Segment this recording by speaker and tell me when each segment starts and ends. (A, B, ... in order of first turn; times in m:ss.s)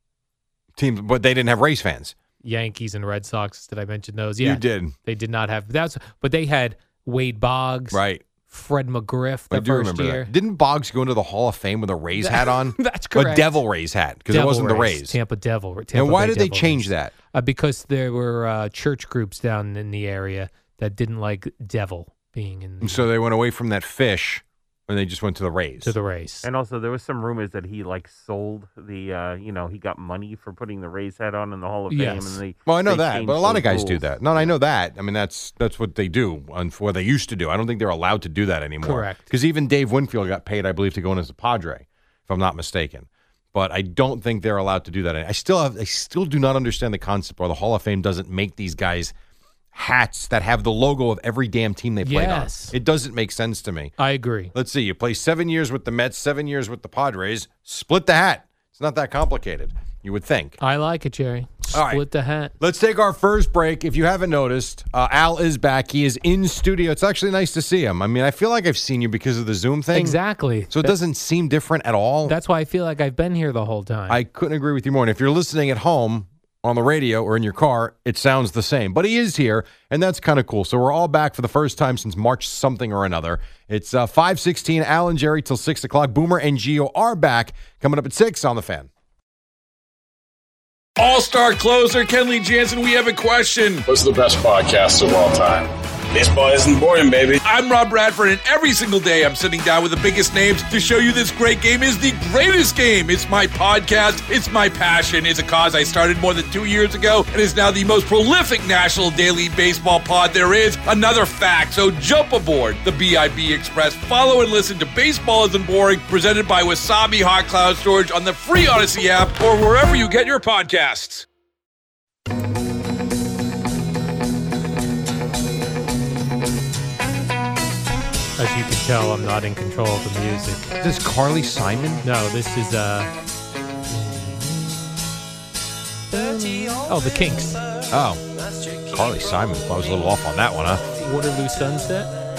0:00.8-0:02.1 A
0:02.4-0:10.3 B
0:04.4-0:04.9 A
0:07.9-0:08.2 A
0:09.5-0:15.2 A
0:12.2-0:13.6 B
0:14.3-0:23.1 B
0:15.9-0:17.1 A
0:22.8-0:25.9 A
0:25.8-0:26.5 B
0:26.4-0:34.6 C
0:31.9-0:32.4 B
0:32.6-0:49.1 A
0:38.8-0:39.2 B
0:49.7-0:53.9 A
0:52.0-0:52.7 B
0:54.0-0:54.5 B
0:54.5-1:00.6 A
1:00.6-1:02.5 B
1:01.7-1:02.0 A
1:02.6-1:12.3 A
1:09.9-1:11.0 B
1:12.2-1:14.2 B
1:14.1-1:28.9 A
1:31.0-1:33.9 D
1:33.9-1:37.4 E
1:37.4-2:01.2 D
2:08.4-2:10.8 B
2:10.8-2:12.0 A
2:12.0-2:13.1 B
2:13.9-2:14.8 B
2:16.1-2:17.6 B
2:17.9-2:18.2 A
2:18.8-2:20.8 A
2:21.0-2:22.1 B